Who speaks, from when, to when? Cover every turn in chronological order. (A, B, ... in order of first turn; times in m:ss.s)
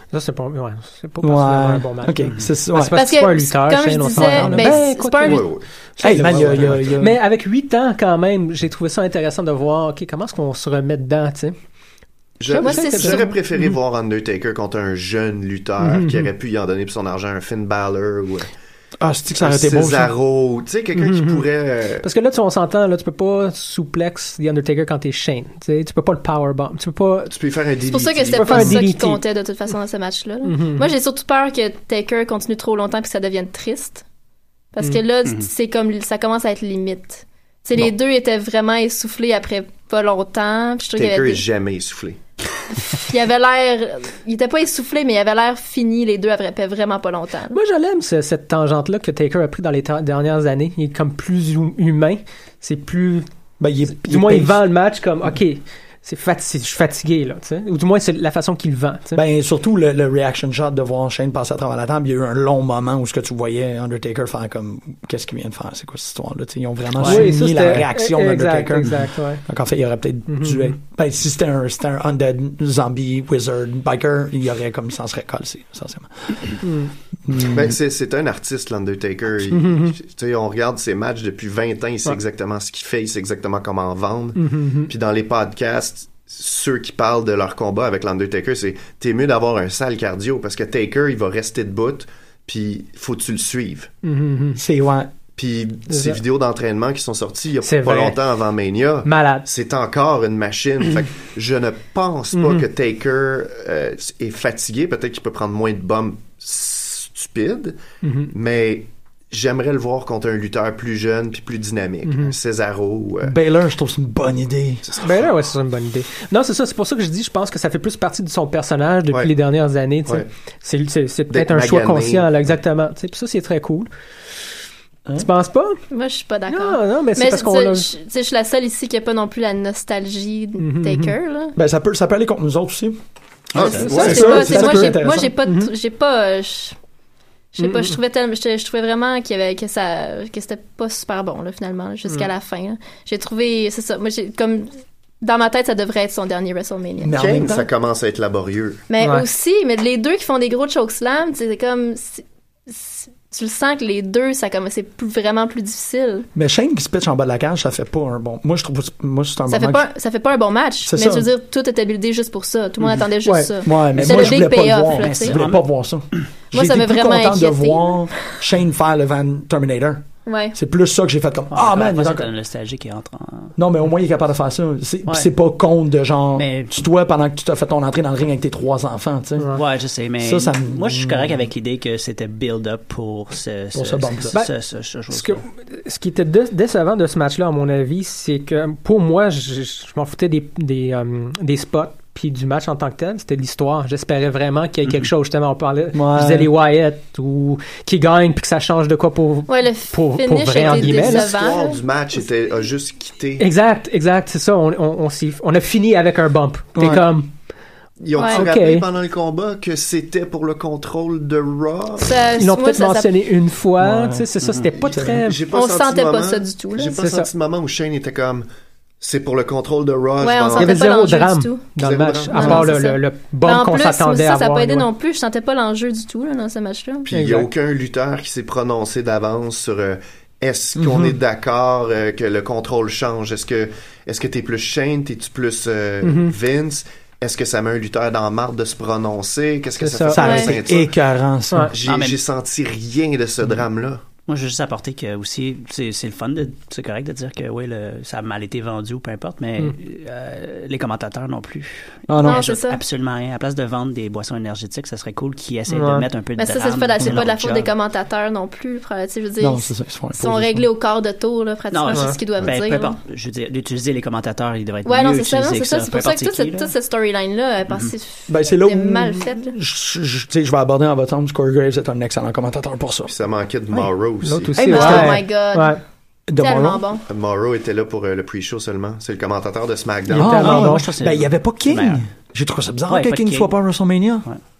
0:00.1-0:05.4 A
0:01.2-0:03.0 B
0:02.9-0:05.5 C
0:04.1-0:04.8 B
0:05.2-0:06.9 D
0:06.0-0:11.5 A
0:06.0-0:07.2 B
0:12.4-0:18.5 D
0:12.5-0:13.7 A
0:12.6-0:13.4 C
0:15.8-0:16.3 A
0:19.0-0:20.1 B
0:19.4-0:22.1 D
0:20.9-0:21.4 A
0:22.0-0:27.3 A
0:27.3-0:28.7 D
0:27.9-0:34.0 C
0:28.3-0:29.2 A
0:30.4-0:30.9 A
0:34.7-0:41.4 C
0:35.2-0:35.5 E
0:40.9-0:42.2 D
0:42.9-0:47.6 C
0:47.5-0:53.2 A
0:53.6-0:54.6 B
0:53.9-0:59.2 A
0:59.1-1:16.6 B
1:07.0-1:07.8 E
1:07.0-1:09.4 A
1:10.3-1:10.8 A
1:16.6-1:16.9 A
1:17.3-1:17.7 B
1:17.4-1:33.9 D
1:19.5-1:20.0 A
1:24.4-1:24.9 A
1:34.0-1:34.6 A
1:34.6-1:35.1 B
1:35.3-1:53.4 D
1:35.9-1:36.2 A
1:37.6-1:38.2 A
1:39.0-1:39.5 A
1:42.3-1:42.6 A
1:48.0-1:48.3 A
1:52.0-1:52.3 A
1:53.2-1:54.9 B
1:54.8-1:55.3 D
1:55.0-2:03.9 A
2:01.3-2:02.5 D
2:05.1-2:05.8 A
2:05.9-2:11.6 C
2:06.5-2:07.9 A
2:10.6-2:11.1 A
2:11.6-2:13.0 B
2:13.5-2:14.4 D
2:13.6-2:16.8 C
2:13.6-2:15.7 A
2:13.6-2:15.3 B
2:17.5-2:24.7 C
2:17.6-2:17.9 A
2:25.2-2:27.2 C
2:27.0-2:27.7 B
2:27.2-2:28.8 D
2:28.9-2:36.3 C
2:29.0-2:29.2 A
2:36.3-2:39.9 B
2:39.5-2:45.4 C
2:40.8-2:41.3 B
2:42.8-2:43.1 E
2:43.2-2:43.5 A
2:43.6-2:52.3 B
2:43.9-2:46.2 E
2:46.5-2:48.3 C
2:50.2-2:50.6 C
2:51.5-2:53.6 E
2:53.6-2:59.6 B
2:56.3-2:56.8 E
2:59.5-3:05.4 E
3:00.2-3:01.4 B
3:03.7-3:04.4 B
3:05.1-3:21.3 A
3:15.9-3:16.5 B
3:19.5-3:21.8 C
3:20.6-3:23.5 D
3:23.4-3:27.3 A
3:26.7-3:27.1 B
3:28.0-3:32.4 D
3:28.1-3:28.4 C
3:28.2-3:28.9 A
3:32.0-3:33.1 C
3:32.4-3:35.4 A
3:33.8-3:34.2 B
3:34.4-3:34.7 E
3:34.8-3:38.4 D
3:34.9-3:35.2 B
3:35.5-3:37.0 C
3:37.0-3:37.3 A
3:39.0-3:40.8 D
3:40.2-3:41.7 C
3:40.6-3:44.9 A
3:41.8-3:42.7 D
3:42.3-3:47.1 C
3:47.0-4:00.9 D
3:47.1-3:47.5 A
3:50.8-3:51.2 B
3:56.0-3:56.3 A
3:59.8-4:00.2 A
4:00.1-4:01.7 B
4:00.2-4:00.6 C
4:01.7-4:04.0 D
4:01.8-4:02.2 E
4:04.3-4:17.7 E
4:12.1-4:12.4 B
4:12.2-4:12.8 C
4:15.7-4:16.0 A
4:16.4-4:23.0 C
4:19.4-4:20.7 B
4:21.7-4:26.7 E
4:21.9-4:22.2 A
4:24.8-4:29.5 C
4:27.7-4:27.9 E
4:28.3-4:33.1 B
4:33.1-4:35.1 D
4:33.7-4:35.8 A
4:34.6-4:35.2 B
4:34.6-4:35.8 C
4:36.3-4:36.8 B
4:36.3-4:37.0 C
4:37.1-4:40.6 D
4:40.1-4:40.9 A
4:40.1-4:44.3 B
4:40.4-4:42.0 E
4:42.9-4:43.6 E